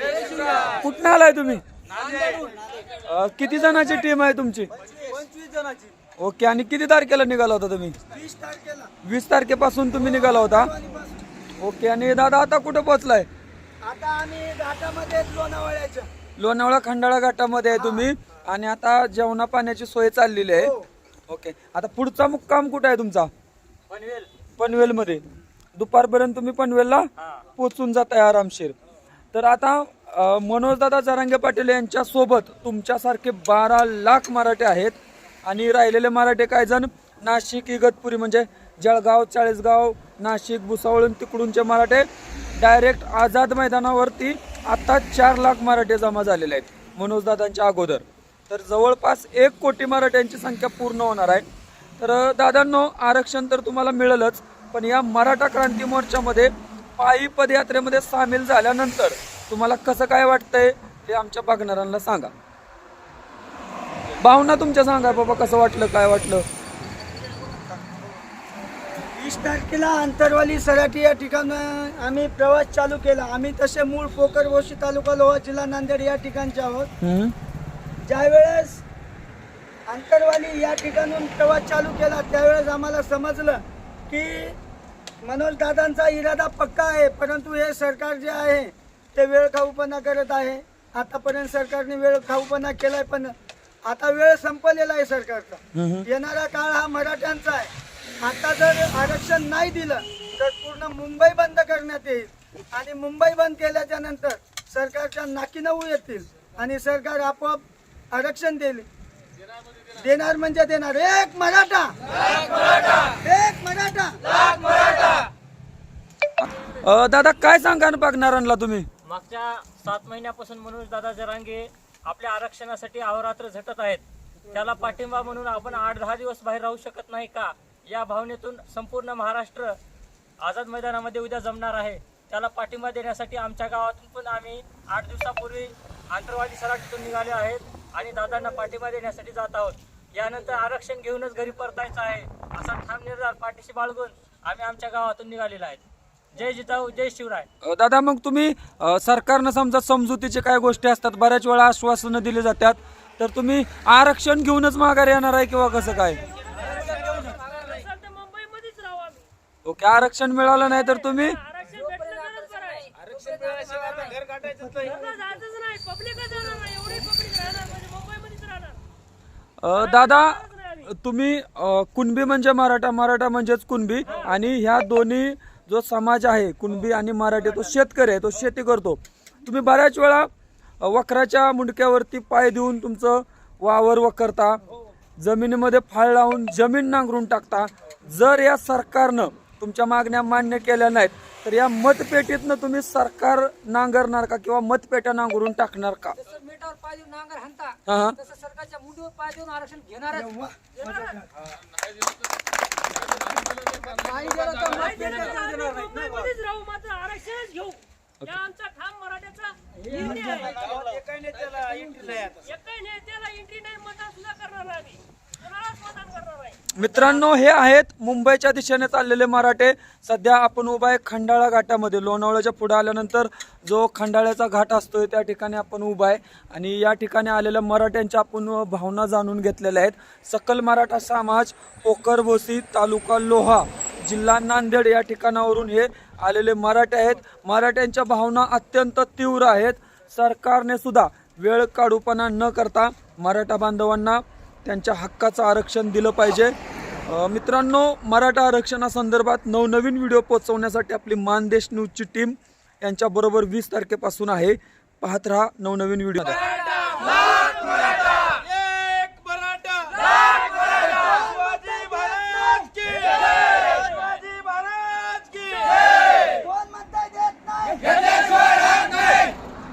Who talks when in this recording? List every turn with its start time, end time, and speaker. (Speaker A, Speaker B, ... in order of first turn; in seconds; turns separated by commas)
Speaker A: 0.7-1.6, Speaker B: 2.0-2.5, Speaker A: 3.0-4.7, Speaker B: 4.8-6.0, Speaker A: 6.2-8.0, Speaker B: 8.1-8.9, Speaker A: 9.0-10.7, Speaker B: 9.9-11.2, Speaker A: 11.6-13.3, Speaker B: 13.8-16.1, Speaker A: 16.4-20.7, Speaker B: 17.7-18.1, Speaker B: 20.6-20.9, Speaker A: 21.3-23.3, Speaker C: 23.9-24.3, Speaker A: 24.6-25.2, Speaker A: 25.8-28.8, Speaker C: 27.2-27.5, Speaker A: 29.3-51.4, Speaker A: 52.0-62.3, Speaker A: 64.2-66.5, Speaker B: 67.3-68.1, Speaker B: 69.0-76.9, Speaker A: 77.0-77.3, Speaker B: 78.1-78.8, Speaker B: 79.9-84.6, Speaker B: 85.2-93.3, Speaker B: 93.8-97.7, Speaker A: 95.8-96.1, Speaker B: 98.2-108.9, Speaker B: 110.0-115.1, Speaker A: 116.4-118.9, Speaker C: 119.0-129.8, Speaker C: 130.4-147.5, Speaker A: 147.6-156.2, Speaker C: 156.6-157.6, Speaker D: 157.3-159.3, Speaker A: 159.7-161.4, Speaker D: 161.0-162.8, Speaker E: 161.9-164.2, Speaker B: 164.4-165.1, Speaker D: 164.8-168.8, Speaker A: 169.6-180.3, Speaker D: 169.8-170.8, Speaker A: 180.8-184.6, Speaker A: 185.2-196.2, Speaker E: 196.2-200.3, Speaker A: 197.9-198.2, Speaker B: 200.1-201.3, Speaker E: 203.7-206.1, Speaker C: 204.6-205.2, Speaker D: 204.8-210.5, Speaker C: 209.9-210.7, Speaker E: 209.9-210.8, Speaker B: 210.8-212.4, Speaker D: 212.4-216.6, Speaker A: 216.7-246.6, Speaker A: 247.1-256.5, Speaker B: 256.9-259.0, Speaker B: 259.9-268.8